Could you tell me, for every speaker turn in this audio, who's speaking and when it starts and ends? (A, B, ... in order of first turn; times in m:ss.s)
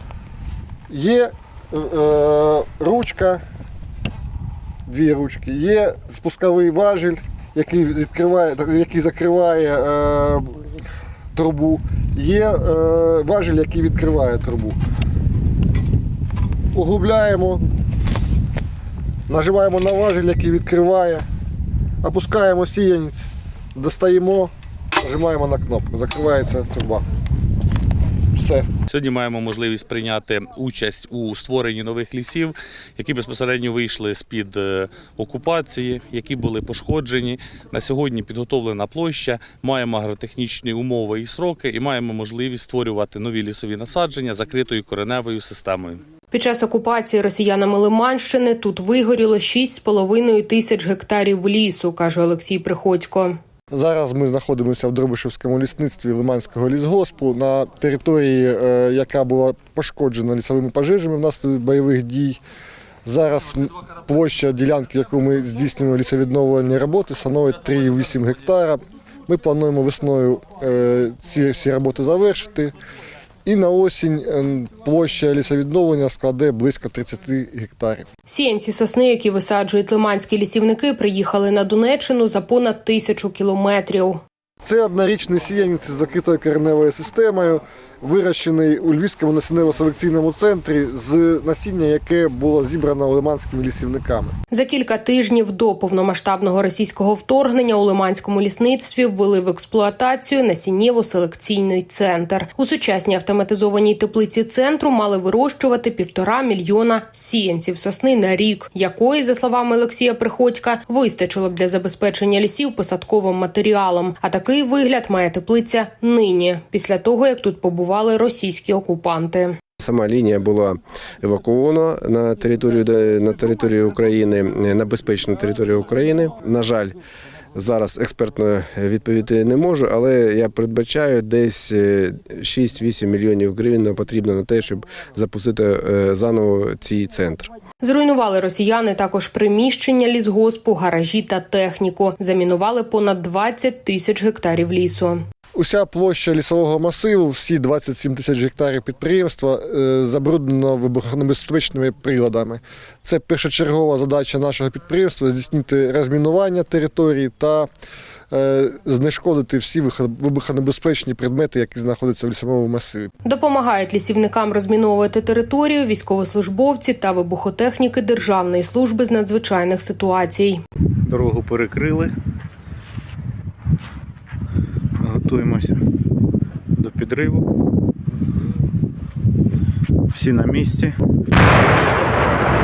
0:00.9-0:03.4 A
0:04.9-0:10.8 A
0:11.3-0:14.8 A
0:16.7-0:17.7 A
0:19.3-0:21.2 A
0:22.0-0:24.5 A
0:25.0-0:27.0 A
0:28.3-0:28.7 A
0:28.9-0:46.0 B
0:46.3-0:53.4 C
0:53.7-1:02.4 A
1:03.0-1:12.7 A
1:13.4-1:18.1 A
1:18.3-1:24.2 C
1:24.6-1:34.3 A
1:34.5-1:59.6 C
1:59.8-2:07.0 D
2:07.6-2:17.5 D
2:17.8-2:25.2 C
2:25.6-2:37.7 A
2:38.3-2:43.1 A
2:43.2-2:50.6 C
2:51.0-2:52.1 E
2:55.0-2:55.8 E
2:56.8-2:57.5 E
3:00.1-3:00.9 E